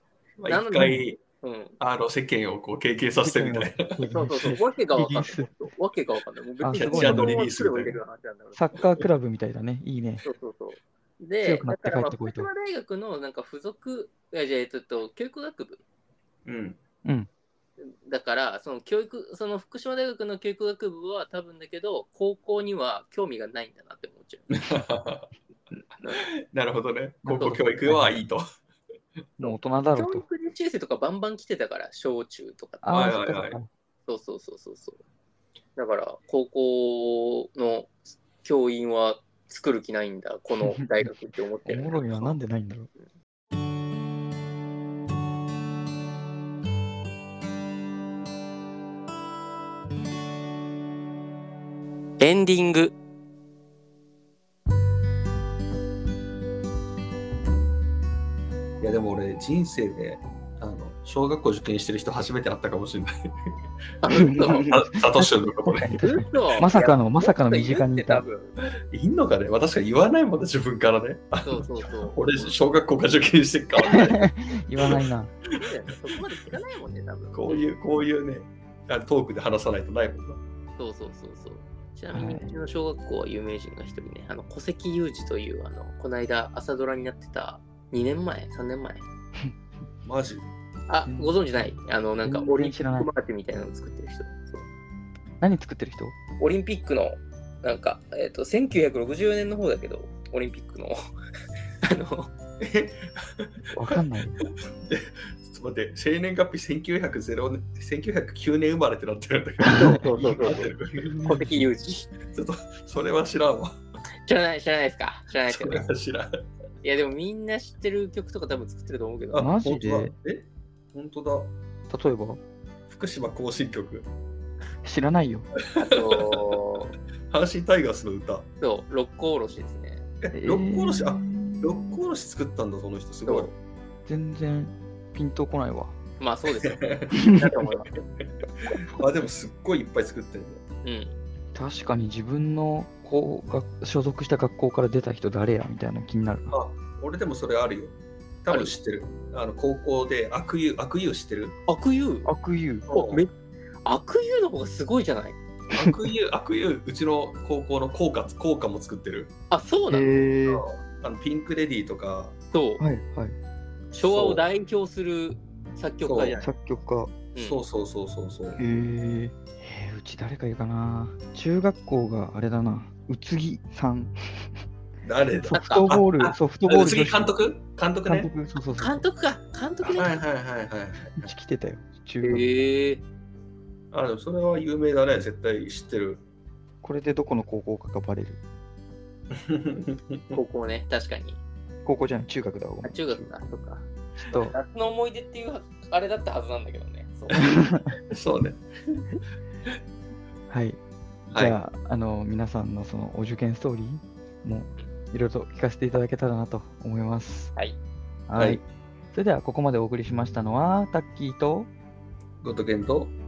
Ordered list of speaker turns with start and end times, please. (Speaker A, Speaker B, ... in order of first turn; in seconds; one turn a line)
Speaker A: 0.4-1.2
Speaker B: 0.5-1.8
Speaker C: 0.8-1.0
Speaker A: 1.8-4.5
Speaker C: 3.2-5.5
Speaker B: 4.1-8.6
Speaker C: 6.6-7.5
Speaker A: 6.7-8.0
Speaker C: 8.6-10.2
Speaker B: 10.2-15.8
Speaker C: 11.4-12.5
Speaker A: 16.4-16.8
Speaker B: 17.8-24.5
Speaker A: 24.5-25.7
Speaker B: 26.0-26.3
Speaker A: 26.5-28.4
Speaker C: 27.2-28.2
Speaker C: 29.4-30.2
Speaker B: 29.4-33.1
Speaker C: 32.8-33.7
Speaker A: 32.9-33.6
Speaker B: 34.0-35.0
Speaker B: 35.8-42.4
Speaker C: 40.6-41.1
Speaker C: 41.6-42.9
Speaker B: 52.2-52.9
Speaker A: 58.8-63.3
Speaker B: 64.0-64.7
Speaker C: 64.1-68.2
Speaker A: 64.4-65.9
Speaker B: 66.0-68.5
Speaker A: 68.9-75.1
Speaker B: 71.4-72.2
Speaker C: 73.9-75.3
Speaker B: 75.6-77.6
Speaker A: 77.3-80.4
Speaker B: 80.8-89.0
Speaker C: 82.1-82.5
Speaker A: 90.0-90.5
Speaker B: 90.9-94.7
Speaker C: 91.0-93.1
Speaker C: 95.4-96.1
Speaker B: 96.4-101.0
Speaker B: 101.8-102.3
Speaker A: 102.6-103.8
Speaker C: 103.7-104.3
Speaker A: 104.8-111.7
Speaker B: 109.7-110.7
Speaker C: 109.7-111.5
Speaker B: 111.3-112.1
Speaker A: 112.2-113.7
Speaker B: 114.2-115.9
Speaker A: 115.4-116.3
Speaker B: 116.8-119.5
Speaker A: 119.3-121.5
Speaker C: 119.4-120.1
Speaker C: 121.9-122.4
Speaker A: 122.9-124.1
Speaker C: 124.8-125.5
Speaker B: 125.8-127.0
Speaker A: 126.1-126.5
Speaker A: 127.3-128.4
Speaker B: 128.6-130.0
Speaker A: 130.2-133.5
Speaker C: 130.3-132.0
Speaker C: 134.1-135.9
Speaker B: 136.2-138.0
Speaker A: 136.6-140.6
Speaker C: 137.1-137.4
Speaker B: 140.8-141.1
Speaker C: 141.5-146.6
Speaker A: 146.5-151.5
Speaker B: 151.7-152.3
Speaker C: 152.2-152.9
Speaker A: 152.9-153.2
Speaker B: 152.9-153.3
Speaker B: 153.8-155.4
Speaker C: 155.7-156.1
Speaker A: 155.7-159.3
Speaker B: 159.5-160.2
Speaker C: 159.9-160.6
Speaker A: 160.4-162.3
Speaker B: 162.5-162.8
Speaker C: 162.8-163.3
Speaker B: 163.9-166.5
Speaker A: 164.0-164.4
Speaker A: 166.0-166.4
Speaker C: 166.4-167.1
Speaker B: 167.3-167.6
Speaker A: 167.4-168.6
Speaker C: 168.6-174.1
Speaker A: 175.0-178.3
Speaker C: 175.4-177.3
Speaker B: 175.5-175.9
Speaker C: 178.1-179.0
Speaker B: 178.8-180.2
Speaker A: 179.9-181.3
Speaker C: 181.1-182.5
Speaker B: 182.2-183.0
Speaker A: 183.9-186.2
Speaker C: 186.8-188.4
Speaker A: 189.3-190.4
Speaker B: 190.3-191.4
Speaker C: 191.8-193.3
Speaker B: 192.8-197.5
Speaker C: 194.2-194.5
Speaker C: 197.5-197.9
Speaker A: 198.1-199.1
Speaker C: 200.5-200.8
Speaker A: 201.3-201.6
Speaker C: 201.3-207.5
Speaker C: 208.3-211.7
Speaker A: 208.3-208.6
Speaker A: 212.4-213.1